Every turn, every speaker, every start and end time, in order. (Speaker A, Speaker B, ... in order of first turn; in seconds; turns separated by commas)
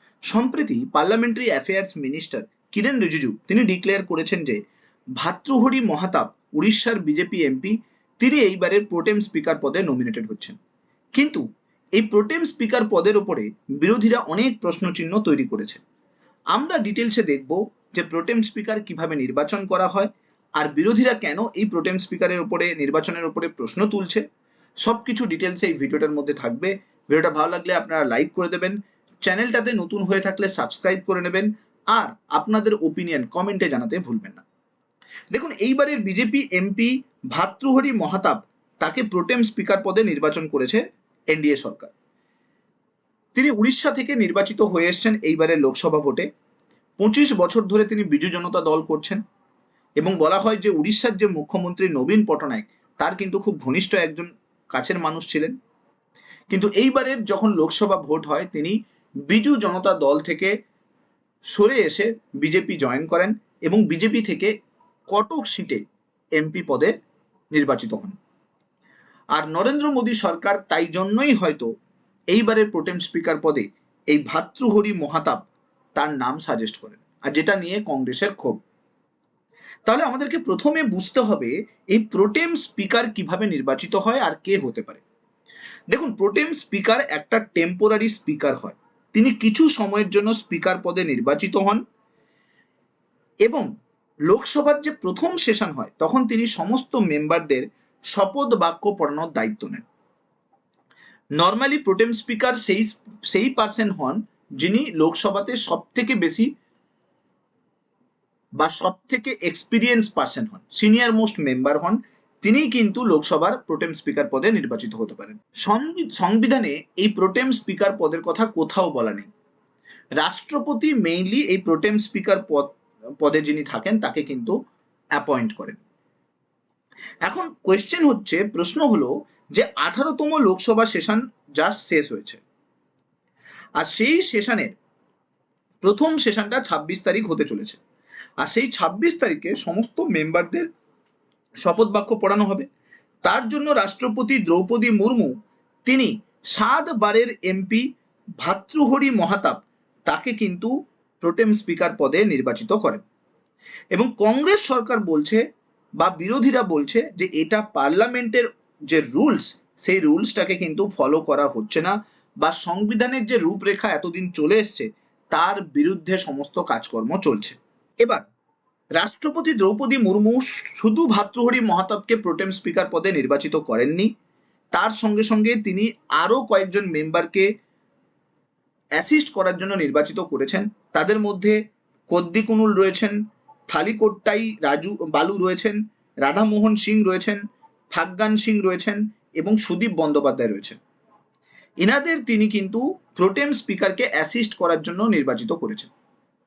Speaker A: 0.3-4.6, Speaker A: 5.2-10.6, Speaker A: 11.1-11.4, Speaker A: 11.9-15.8, Speaker A: 16.5-24.2, Speaker A: 24.8-34.4, Speaker A: 35.3-41.9, Speaker A: 43.3-46.2, Speaker A: 47.0-49.2, Speaker A: 50.0-55.5, Speaker A: 56.5-58.8, Speaker A: 59.3-60.5, Speaker A: 61.5-64.5, Speaker A: 65.1-65.8, Speaker A: 66.4-66.9, Speaker A: 67.5-68.2, Speaker A: 69.3-71.7, Speaker A: 72.3-78.6, Speaker A: 79.9-85.0, Speaker A: 85.9-91.8, Speaker A: 94.3-99.8, Speaker A: 101.4-106.5, Speaker A: 108.6-119.3, Speaker A: 120.2-124.5, Speaker A: 125.2-125.8, Speaker A: 127.2-132.4, Speaker A: 133.8-134.7, Speaker A: 135.8-137.8, Speaker A: 138.4-140.7, Speaker A: 141.6-142.7, Speaker A: 143.2-145.3, Speaker A: 145.8-147.8, Speaker A: 148.4-153.0, Speaker A: 153.9-155.4, Speaker A: 156.0-168.2, Speaker A: 169.0-174.1, Speaker A: 174.7-177.5, Speaker A: 179.0-181.6, Speaker A: 182.1-183.2, Speaker A: 183.7-187.4, Speaker A: 187.9-190.8, Speaker A: 191.8-195.9